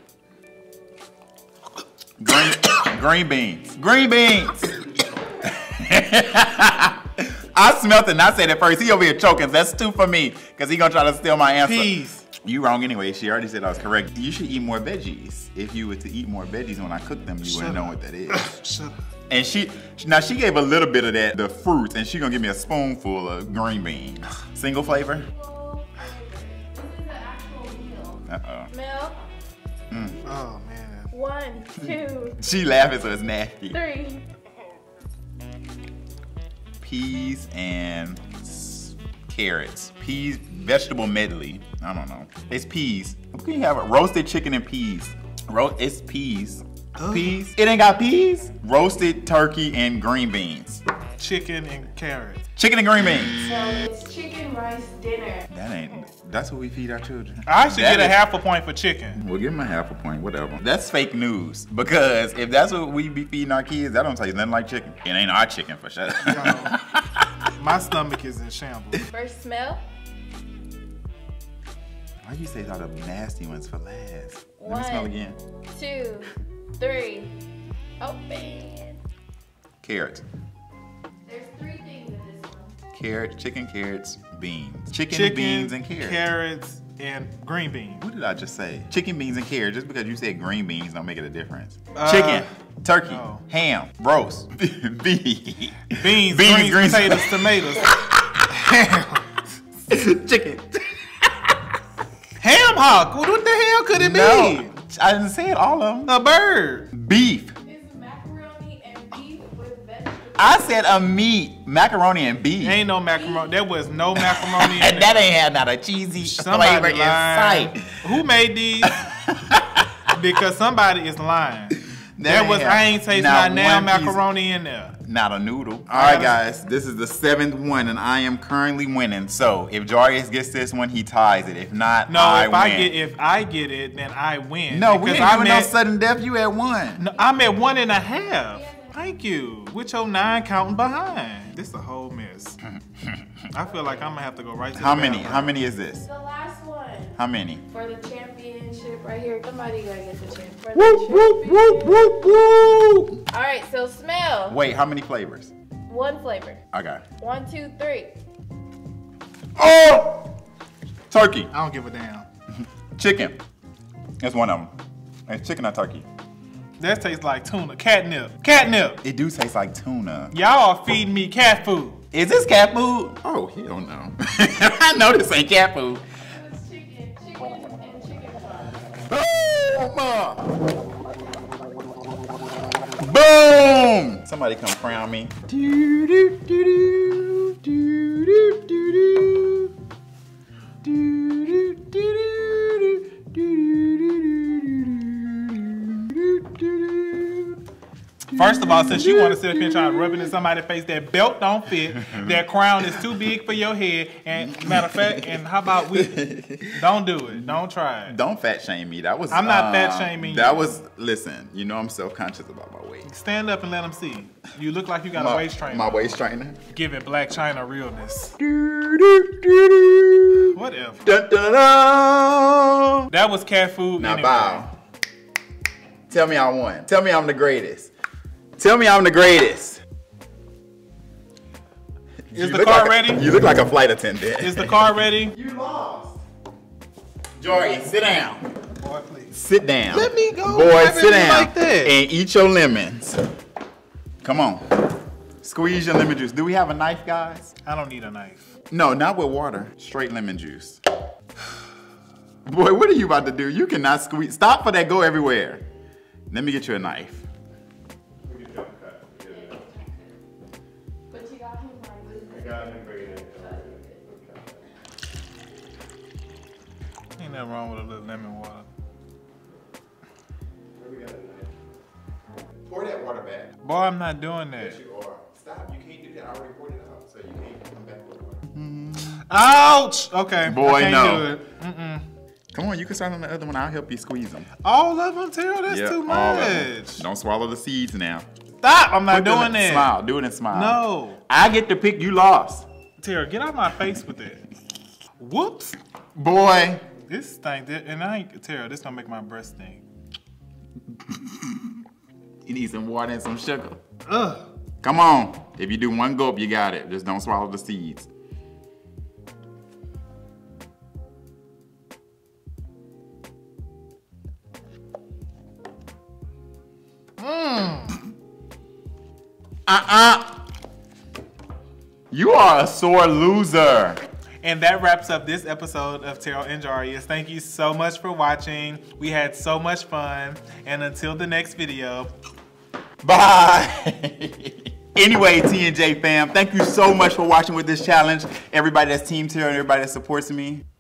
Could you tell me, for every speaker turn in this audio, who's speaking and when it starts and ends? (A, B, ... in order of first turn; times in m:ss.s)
0:02.2-0:18.5 A
0:11.6-0:12.3 B
0:17.4-0:19.0 B
0:19.3-0:25.3 A
0:25.2-0:29.2 C
0:28.3-0:28.7 A
0:29.9-0:30.2 A
0:30.2-0:31.1 B
0:31.1-0:32.4 C
0:31.8-0:33.8 A
0:33.7-0:34.2 C
0:36.8-0:50.8 A
0:47.0-0:47.4 B
0:51.2-0:52.4 B
0:52.6-0:53.5 A
0:53.4-0:55.5 C
0:55.5-0:58.2 A
0:57.5-0:59.2 B
0:59.2-1:07.3 A
1:06.2-1:06.8 B
1:07.6-1:09.1 B
1:09.1-1:09.8 C
1:12.2-1:15.4 A
1:14.6-1:17.3 C
1:18.0-1:19.0 C
1:19.8-1:20.2 A
1:21.3-1:22.8 C
1:22.9-1:26.2 A
1:25.1-1:28.0 B
1:28.0-1:38.5 A
1:32.0-1:32.5 B
1:33.1-1:33.4 B
1:35.9-1:39.5 B
1:39.9-1:41.6 A
1:42.4-1:44.7 B
1:43.9-1:46.1 A
1:46.1-1:46.9 B
1:46.9-1:47.6 A
1:47.6-1:50.8 C
1:50.3-1:52.8 A
1:52.6-1:55.3 B
1:53.1-1:53.6 C
1:54.1-1:58.2 A
1:56.2-1:59.0 B
1:58.8-2:00.1 A
2:00.1-2:04.9 B
2:02.2-2:04.2 A
2:05.0-2:12.9 A
2:05.9-2:06.4 B
2:12.1-2:15.7 B
2:14.7-2:17.0 A
2:17.0-2:22.6 B
2:18.5-2:19.0 C
2:22.7-2:23.4 A
2:23.5-2:25.5 B
2:23.8-2:24.1 C
2:24.7-2:26.1 A
2:26.0-2:27.2 C
2:27.2-2:27.6 A
2:27.7-2:32.3 C
2:30.7-2:33.2 A
2:33.3-2:34.6 C
2:34.5-2:35.5 A
2:35.9-2:36.6 C
2:36.7-2:37.0 A
2:37.2-2:38.1 C
2:39.6-2:40.4 A
2:41.1-2:41.5 A
2:41.5-2:42.3 B
2:43.0-2:43.4 A
2:44.2-2:44.7 A
2:45.3-2:46.1 A
2:46.8-2:49.0 B
2:49.0-2:50.4 A
2:50.3-2:52.0 B
2:52.1-2:56.0 A
2:56.3-2:58.8 C
2:59.1-3:00.6 A
3:02.9-3:09.7 A
3:10.8-3:17.6 A
3:18.3-3:20.3 A
3:18.3-3:28.2 B
3:22.0-3:23.1 A
3:24.3-3:33.1 A
3:29.3-3:30.7 B
3:33.1-3:36.2 B
3:35.1-3:36.6 A
3:36.7-3:38.4 B
3:38.4-3:43.1 A
3:40.5-3:41.2 B
3:43.1-3:44.7 B
3:44.0-3:44.7 A
3:46.1-3:47.9 A
3:48.6-3:49.8 A
3:52.3-3:56.2 A
3:52.4-3:53.3 B
3:54.4-3:55.4 B
3:57.4-3:58.4 A
3:58.8-3:59.3 B
3:59.3-4:03.2 A
3:59.9-4:01.9 B
4:04.2-4:04.7 A
4:05.4-4:07.5 A
4:07.6-4:08.5 B
4:08.7-4:10.8 A
4:12.5-4:15.6 A
4:16.3-4:17.3 A
4:18.2-4:19.6 A
4:19.3-4:20.1 C
4:21.1-4:22.6 C
4:22.2-4:24.6 A
4:23.4-4:24.0 C
4:27.2-4:28.7 B
4:30.8-4:31.5 A
4:32.6-4:33.5 A
4:33.6-4:34.8 B
4:34.6-4:39.2 A
4:39.2-4:42.1 B
4:40.4-4:41.3 A
4:42.5-4:44.5 A
4:44.6-4:47.0 B
4:45.7-4:48.3 A
4:48.6-4:49.9 B
4:49.1-4:52.7 A
4:50.5-4:51.2 B
4:53.0-4:54.4 B
4:55.2-4:55.8 B
4:56.2-4:56.9 A
4:57.1-4:59.8 B
5:01.0-5:01.8 A
5:02.5-5:03.8 A
5:04.1-5:04.5 B
5:04.8-5:08.1 A
5:17.2-5:18.0 B
5:19.7-5:20.4 A
5:22.1-5:24.0 A
5:24.4-5:32.1 B
5:33.0-5:40.6 A